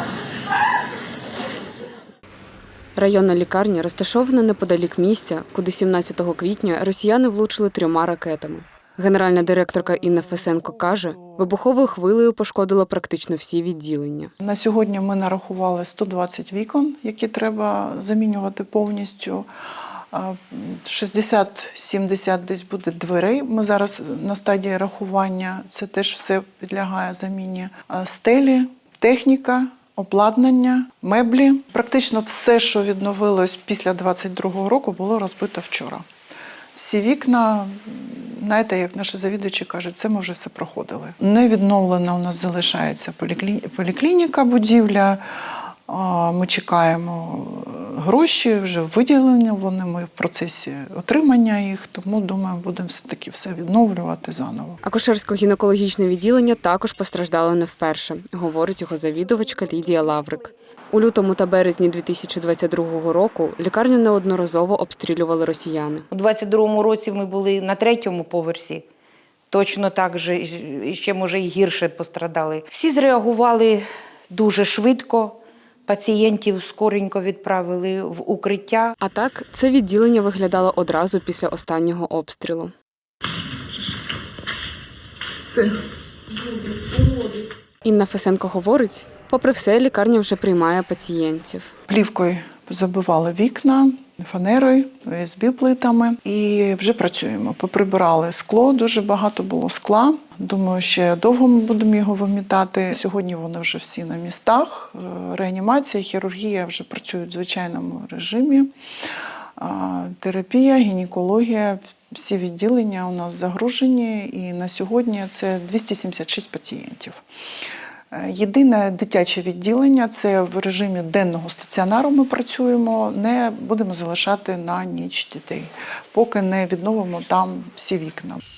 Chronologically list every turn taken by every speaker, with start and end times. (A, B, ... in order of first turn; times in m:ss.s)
0:03.0-0:14.3 A
0:09.3-0:11.5 B
0:14.4-0:19.5 B
0:20.1-0:36.0 B
0:36.8-0:54.8 B
0:54.8-1:06.0 A
1:06.1-1:08.8 C
1:09.5-1:19.0 C
1:19.0-1:22.7 A
1:27.8-1:31.7 A
1:31.9-1:48.7 B
1:49.6-1:57.2 B
1:58.1-2:08.4 B